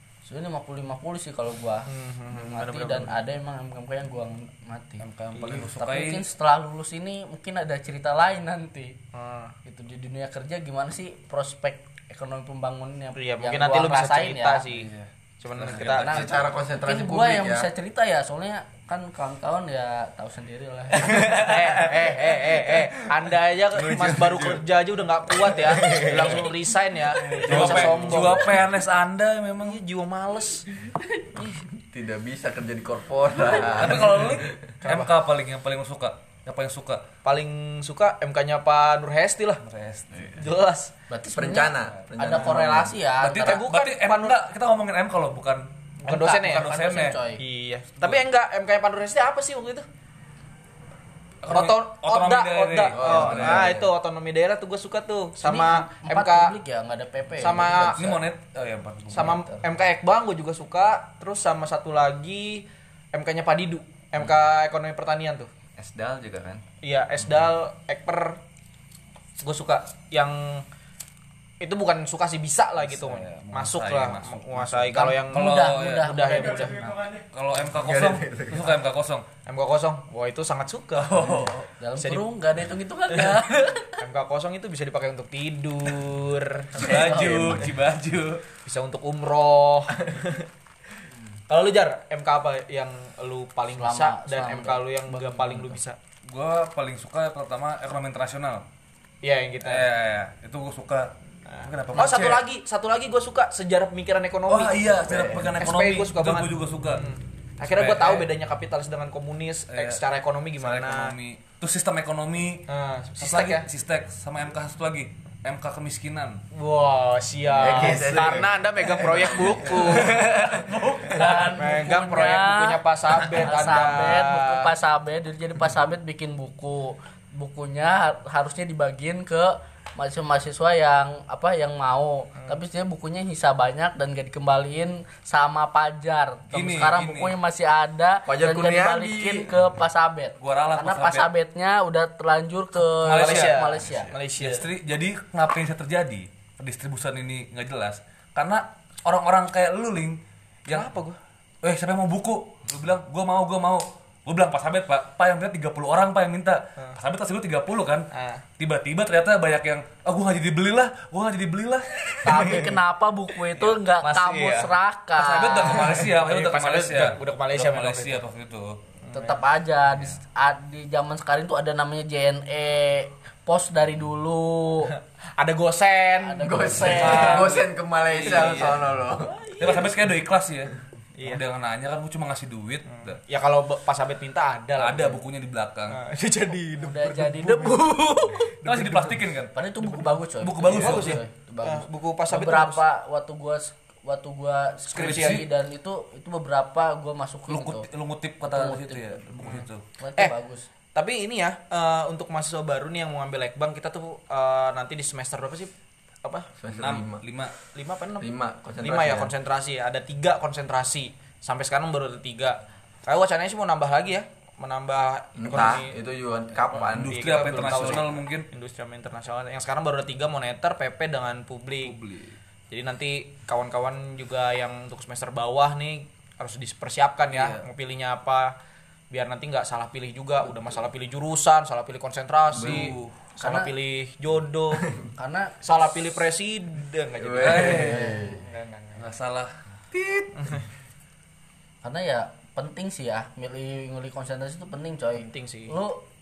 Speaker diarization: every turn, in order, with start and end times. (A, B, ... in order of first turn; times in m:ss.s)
0:00.2-0:09.0 A
0:01.8-0:03.2 B
0:05.0-0:06.2 C
0:05.3-0:05.6 B
0:09.1-0:09.6 B
0:09.6-0:14.7 A
0:13.1-0:16.1 B
0:14.7-0:16.2 C
0:16.0-0:21.5 A
0:16.0-0:17.7 D
0:21.2-0:28.5 B
0:23.8-0:24.6 C
0:25.8-0:26.3 E
0:27.4-0:29.8 C
0:27.5-0:28.0 A
0:27.6-0:28.2 D
0:29.6-0:30.7 B
0:31.5-0:34.6 D
0:33.6-0:37.0 C
0:34.8-0:35.1 B
0:37.2-0:39.6 B
0:39.6-0:40.4 C
0:40.2-0:40.9 B
0:41.1-0:43.6 A
0:41.3-0:43.0 D
0:43.2-0:47.2 C
0:43.3-0:44.4 B
0:46.0-0:47.4 A
0:46.0-0:46.7 B
0:47.4-0:49.8 B
0:48.0-0:48.2 C
0:51.4-0:53.7 C
0:51.5-0:56.6 B
0:52.9-0:53.9 D
0:55.4-0:58.2 A
0:57.4-0:58.0 B
0:57.8-0:59.6 C
0:59.1-1:05.5 B
1:05.8-1:06.6 E
1:06.8-1:08.4 B
1:09.4-1:10.6 B
1:11.6-1:16.8 B
1:12.8-1:19.2 C
1:14.9-1:17.0 A
1:17.7-1:18.8 D
1:19.4-1:21.4 B
1:21.0-1:21.7 C
1:21.8-1:24.0 A
1:22.0-1:22.3 B
1:23.1-1:23.4 B
1:24.0-1:27.0 B
1:26.8-1:28.4 C
1:26.8-1:27.8 A
1:28.6-1:30.5 B
1:31.5-1:36.0 B
1:33.7-1:35.8 A
1:36.3-1:38.6 C
1:39.2-1:39.8 B
1:39.6-1:42.4 C
1:41.4-1:51.1 B
1:44.5-1:47.1 C
1:47.6-1:48.3 C
1:49.7-1:50.0 C
1:50.6-1:52.6 C
1:52.7-1:53.7 B
1:53.2-1:56.4 C
1:56.5-2:00.2 B
1:57.6-1:59.9 D
1:57.7-1:58.2 E
1:59.4-2:02.5 C
2:00.1-2:00.6 E
2:01.1-2:02.8 A
2:01.3-2:04.7 B
2:03.2-2:03.8 C
2:03.4-2:24.1 A
2:16.5-2:17.4 C
2:18.2-2:19.5 D
2:20.4-2:21.3 C
2:22.8-2:23.6 C
2:23.1-2:24.7 B
2:24.4-2:30.9 C
2:30.7-2:31.2 B
2:31.6-2:42.8 C
2:38.1-2:38.4 B
2:42.2-2:46.0 A
2:44.0-2:44.7 E
2:45.2-2:48.8 C
2:45.9-2:48.2 B
2:49.0-2:49.4 B
2:49.1-2:54.9 A
2:55.4-2:57.5 B
2:56.2-2:57.6 A
2:56.4-2:59.3 D
2:56.8-2:58.8 C
2:58.1-3:00.1 B
2:59.6-3:03.2 C
3:02.9-3:05.2 B
3:04.8-3:06.0 C
3:05.9-3:09.2 B
3:06.8-3:08.3 A
3:08.6-3:11.2 C
3:09.5-3:17.9 A
3:10.8-3:12.8 B
3:14.9-3:15.5 B
3:14.9-3:15.5 C
3:17.5-3:19.8 C
3:18.5-3:19.2 A
3:19.4-3:19.6 B
3:20.0-3:20.7 A
3:20.9-3:25.7 B
3:26.2-3:26.5 B
3:26.6-3:27.2 D
3:26.7-3:27.5 C
3:27.7-3:28.3 B
3:28.2-3:29.3 D
3:28.8-3:35.9 B
3:35.4-3:38.1 D
3:36.8-3:42.0 B
3:36.9-3:38.5 C
3:41.8-3:42.4 C
3:42.7-3:48.5 B
3:49.1-3:54.9 B
3:52.5-3:53.2 C
3:52.5-3:52.9 D
3:53.4-3:53.7 A
3:55.2-3:55.6 A
3:55.6-3:57.9 B
3:57.2-3:58.4 D
3:57.4-3:58.2 C
3:57.7-3:58.4 A
3:58.5-3:59.0 B
3:58.9-3:59.6 C
4:00.3-4:00.6 B
4:01.8-4:06.0 A
4:05.1-4:05.8 B